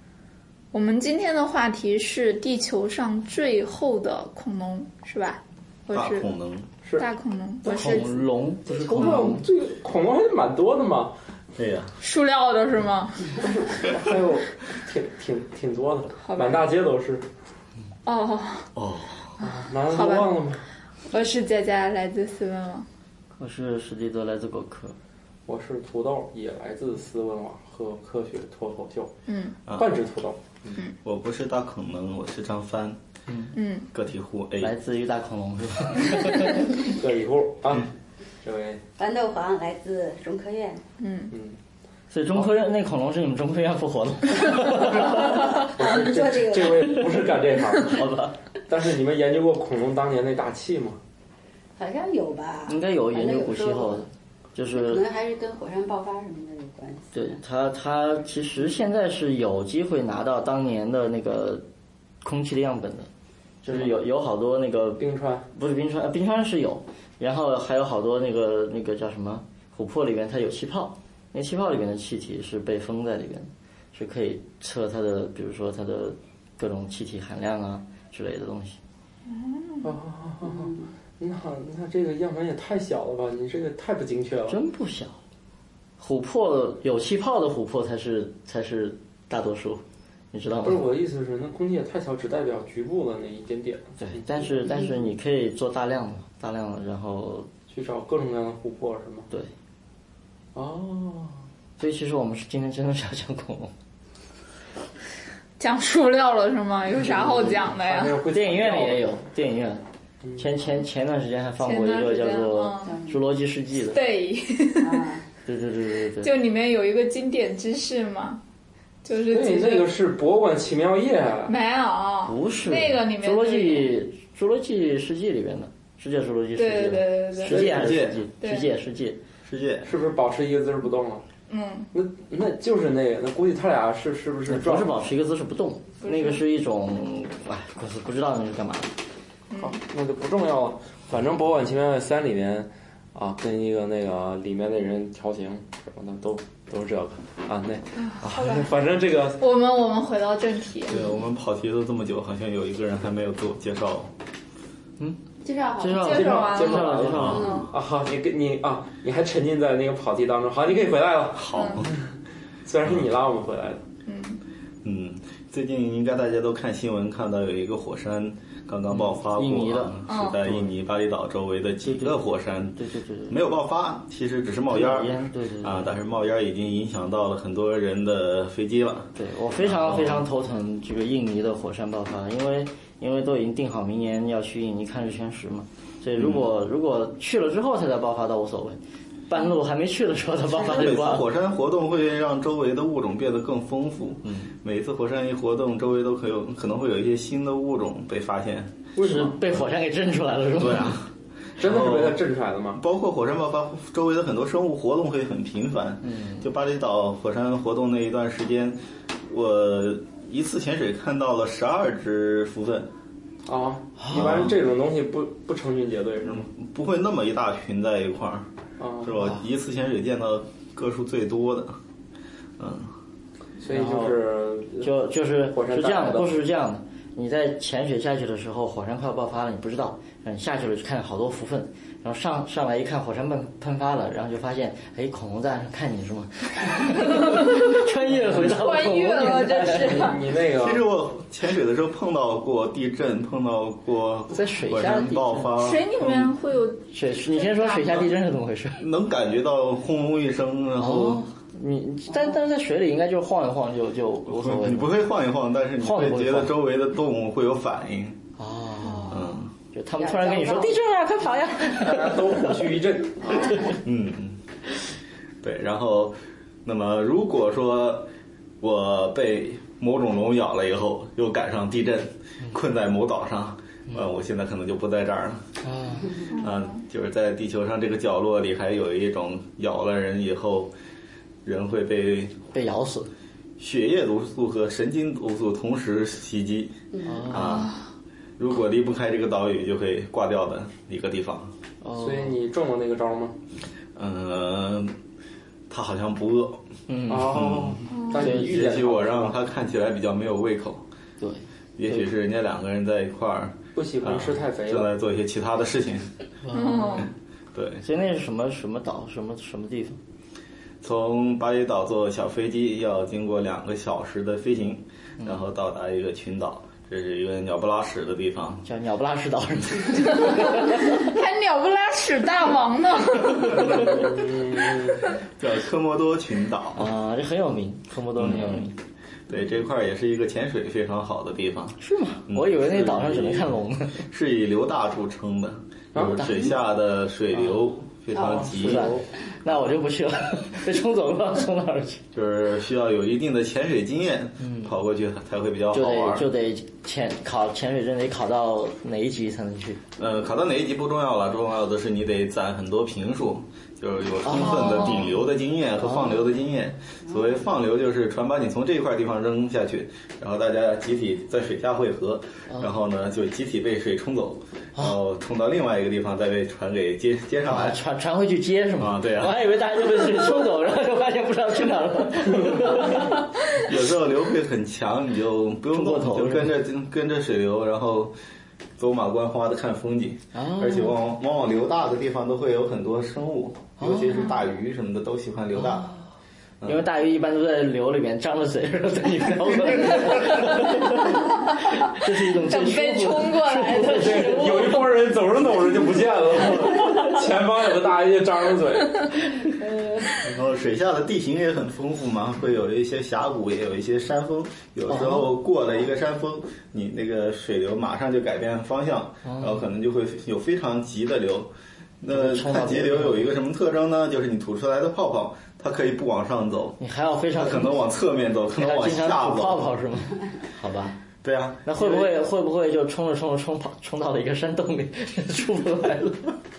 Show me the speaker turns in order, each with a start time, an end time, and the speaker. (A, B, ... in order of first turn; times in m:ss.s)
0:00.7-0:06.3 A
0:05.9-0:06.6 B
0:07.0-0:08.1 A
0:07.6-0:09.4 C
0:07.7-0:08.1 D
0:08.7-0:11.1 D
0:11.6-0:11.9 B
0:12.0-0:13.3 A
0:13.4-0:17.2 D
0:16.2-0:16.7 A
0:18.0-0:18.7 A
0:18.7-0:19.3 B
0:19.4-0:20.6 D
0:19.4-0:20.3 A
0:21.1-0:22.8 A
0:23.4-0:25.0 C
0:25.5-0:29.1 D
0:29.3-0:29.6 A
0:29.7-0:30.8 D
0:31.0-0:33.0 B
0:33.3-0:33.5 C
0:33.5-0:33.9 A
0:33.9-0:34.7 B
0:34.6-0:36.7 C
0:36.8-0:37.9 D
0:38.4-0:38.8 D
0:39.0-0:40.8 E
0:41.0-0:41.3 A
0:41.3-0:41.6 D
0:42.1-0:45.6 C
0:44.9-0:47.0 E
0:45.7-0:48.0 D
0:47.8-0:48.4 C
0:48.7-0:51.0 D
0:51.8-0:54.1 E
0:52.7-0:55.0 C
0:54.7-0:57.4 E
0:57.1-1:01.6 C
1:02.2-1:03.1 C
1:03.6-1:18.8 C
1:03.7-1:03.9 D
1:05.0-1:05.4 D
1:19.3-1:19.9 A
1:19.8-1:24.6 D
1:20.4-1:20.8 E
1:24.5-1:25.2 C
1:26.0-1:30.8 C
1:30.6-1:34.2 D
1:34.0-1:37.5 C
1:37.7-1:39.3 D
1:40.5-1:41.4 D
1:41.8-1:43.7 C
1:45.6-1:48.2 A
1:47.6-1:49.0 D
1:48.3-1:49.8 C
1:50.4-1:54.0 C
1:51.6-1:53.0 A
1:52.8-1:53.2 E
1:53.9-1:55.1 A
1:54.8-1:55.2 E
1:55.4-1:56.3 C
1:56.2-1:58.4 A
1:59.0-1:59.9 A
1:59.3-2:01.5 D
2:01.5-2:03.9 A
2:02.2-2:09.2 C
2:06.6-2:07.8 A
2:07.4-2:08.0 D
2:07.7-2:08.2 B
2:08.4-2:08.7 A
2:09.4-2:09.9 B
2:09.8-2:11.2 D
2:11.5-2:11.9 A
2:11.9-2:14.9 D
2:14.5-2:18.9 C
2:16.0-2:16.4 A
2:19.5-2:19.8 A
2:19.6-2:29.4 D
2:28.0-2:28.6 A
2:28.2-2:28.7 C
2:29.4-2:31.0 A
2:30.9-2:34.1 B
2:35.4-2:37.7 E
2:35.8-2:37.5 C
2:35.9-2:37.7 A
2:36.6-2:42.0 D
2:37.2-2:37.4 B
2:41.3-2:41.9 B
2:41.5-2:41.8 A
2:42.6-2:43.8 D
2:44.0-2:44.4 A
2:44.8-3:00.3 B
2:48.9-2:50.0 C
2:50.1-2:50.4 A
2:51.8-2:52.2 C
2:52.8-2:53.4 C
2:54.7-2:55.9 C
2:59.2-3:11.3 C
3:06.2-3:06.5 B
3:10.5-3:18.8 B
3:14.2-3:14.5 C
3:19.0-3:19.6 D
3:19.0-3:20.9 C
3:20.6-3:22.2 B
3:21.6-3:22.8 D
3:22.8-3:32.9 B
3:26.0-3:26.5 C
3:33.5-3:36.5 D
3:34.0-3:34.3 C
3:34.1-3:34.6 B
3:36.2-3:38.5 B
3:38.8-3:39.3 D
3:39.0-3:41.8 B
3:42.6-3:42.9 B
3:43.6-3:44.9 D
3:43.7-3:44.2 C
3:44.8-4:00.1 C
3:45.5-3:46.4 D
3:58.4-4:00.2 A
3:59.7-4:00.8 D
4:00.5-4:06.3 B
4:04.3-4:05.5 C
4:05.6-4:08.1 A
4:06.9-4:08.8 C
4:08.8-4:11.2 B
4:10.8-4:15.0 C
4:14.3-4:18.2 B
4:15.8-4:16.5 C
4:18.4-4:19.2 C
4:19.1-4:19.5 B
4:19.7-4:22.5 C
4:20.0-4:20.8 E
4:21.7-4:23.7 D
4:23.8-4:24.4 B
4:25.4-4:28.1 B
4:28.6-4:35.4 B
4:35.6-4:36.2 C
4:36.3-4:36.8 A
4:36.4-4:40.7 B
4:41.4-4:42.4 B
4:42.5-4:43.1 C
4:43.6-4:46.8 B
4:46.9-4:47.4 E
4:47.0-4:47.7 C
4:47.3-4:47.8 B
4:48.4-4:51.5 B
4:51.8-4:52.3 C
4:52.0-4:53.4 D
4:54.0-4:54.9 B
4:55.7-4:56.6 B
4:56.9-4:58.5 C
4:57.1-4:59.3 D
4:57.2-5:00.8 B
4:57.9-4:58.3 A
5:01.2-5:02.1 C
5:01.8-5:06.1 B
5:03.8-5:04.9 D
5:06.5-5:07.1 C
5:06.5-5:07.1 A
5:07.5-5:07.8 B
5:07.8-5:10.0 C
5:10.8-5:18.6 B
5:18.6-5:20.8 C
5:20.0-5:24.1 A
5:23.9-5:25.0 D
5:25.4-5:26.9 B
5:26.8-5:28.7 C
5:28.2-5:28.7 B
5:29.3-5:39.0 B
5:31.8-5:34.0 C
5:35.9-5:36.5 D
5:38.1-5:38.5 E
5:38.5-5:39.0 D
5:38.5-5:42.0 C
5:42.1-5:46.3 B
5:44.4-5:44.7 C
5:45.7-5:49.8 C
5:50.0-6:07.8 B
5:54.2-5:55.2 C
5:54.4-5:55.1 A
5:55.8-5:56.2 C
6:07.4-6:13.2 C
6:08.8-6:10.0 B
6:13.5-6:18.1 B
6:15.7-6:16.6 C
6:18.8-6:25.9 B
6:20.3-6:21.0 C
6:23.8-6:24.3 C
6:23.8-6:24.3 D
6:25.6-6:26.0 C
6:26.6-6:26.9 B
6:26.6-6:34.8 C
6:32.4-6:34.8 A
6:34.0-6:39.1 D
6:40.2-6:56.8 B
6:44.9-6:45.4 C
6:49.2-6:49.7 C
6:52.1-6:53.3 C
6:56.8-6:57.8 C
6:57.3-6:59.7 B
6:58.6-7:01.0 C
7:01.2-7:02.1 B
7:01.6-7:06.3 C